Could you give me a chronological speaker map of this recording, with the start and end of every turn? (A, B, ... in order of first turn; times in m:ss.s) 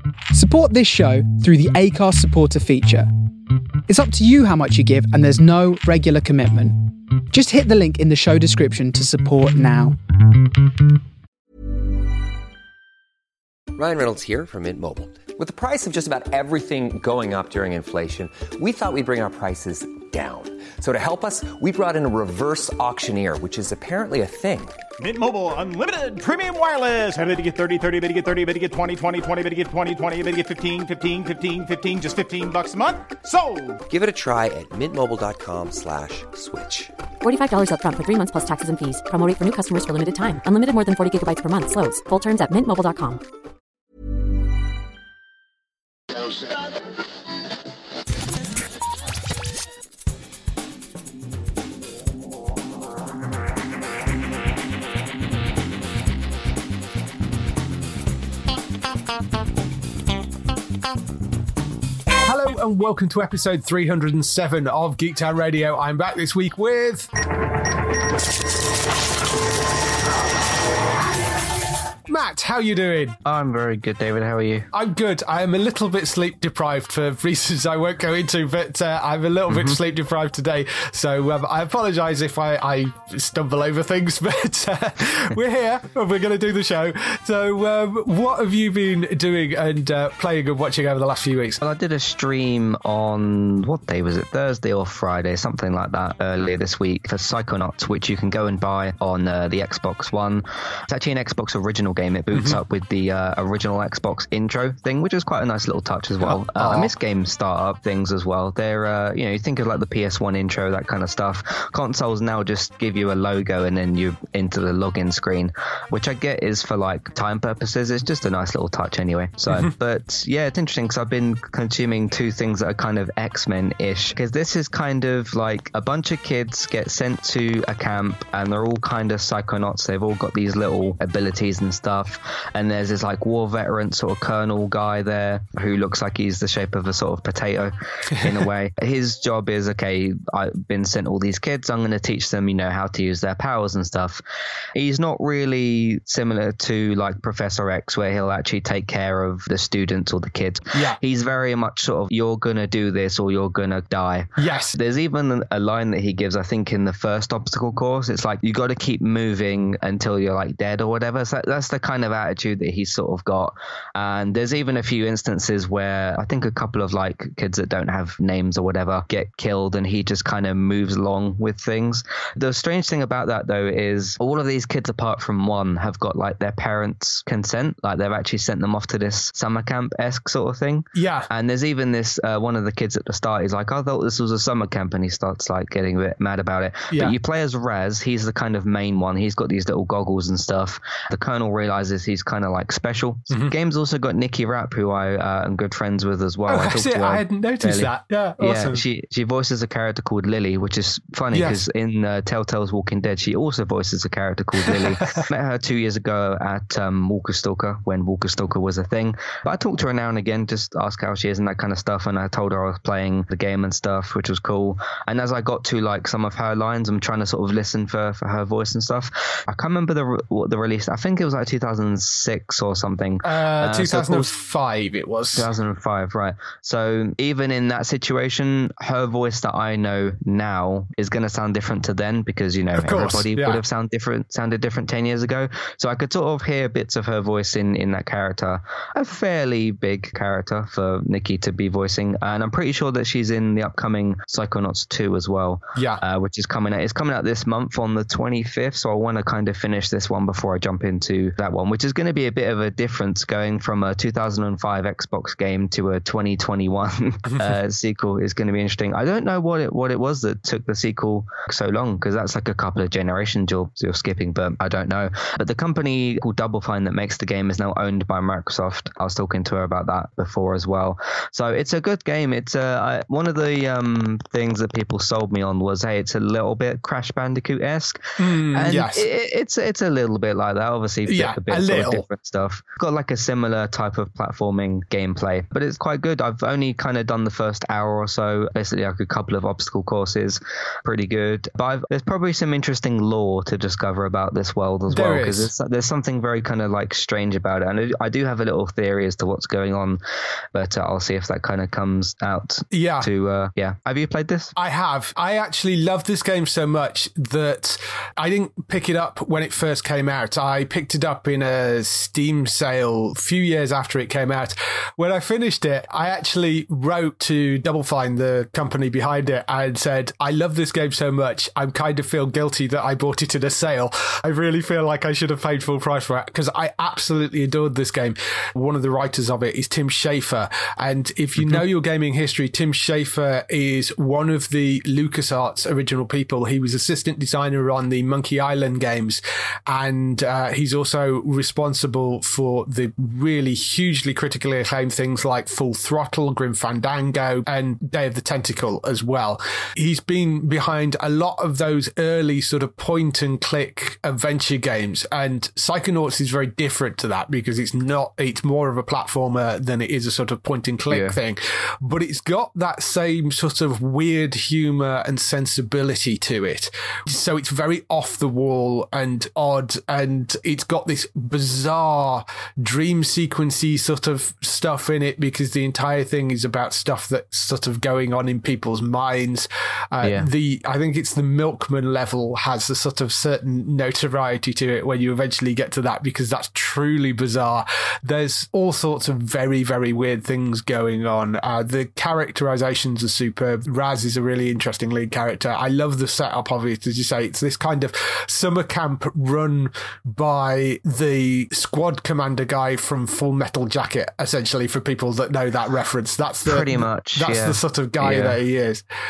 0:00.3-0:03.1 A
0:03.9-0:06.8 A
0:07.3-0:10.0 A
0:13.7-0:24.8 B
0:25.0-0:33.8 C
0:33.9-0:36.9 B
0:37.2-0:43.2 D
1:02.2-1:07.1 E
1:12.1-1:13.2 E
1:13.2-1:14.7 F
1:14.7-1:31.6 E
1:19.5-1:19.8 F
1:31.6-2:24.2 F
1:42.3-1:42.6 E
1:46.3-1:46.9 E
2:18.1-2:18.4 E
2:24.7-3:44.3 F
2:30.7-2:31.0 E
2:34.4-2:34.8 E
3:00.9-3:01.3 E
3:13.3-3:13.5 E
3:16.5-3:18.8 E
3:21.3-3:21.6 E
3:24.7-3:24.9 E
3:43.2-3:45.5 E
3:45.3-5:00.0 F
3:52.7-3:53.6 E
4:05.7-4:06.0 E
4:38.2-4:39.0 E
4:41.0-4:42.0 E
4:54.9-4:55.5 E
5:00.5-5:04.5 F
5:02.7-5:03.1 E
5:04.5-6:48.8 E
6:00.9-6:01.2 F
6:20.0-6:20.3 F
6:46.4-6:48.4 F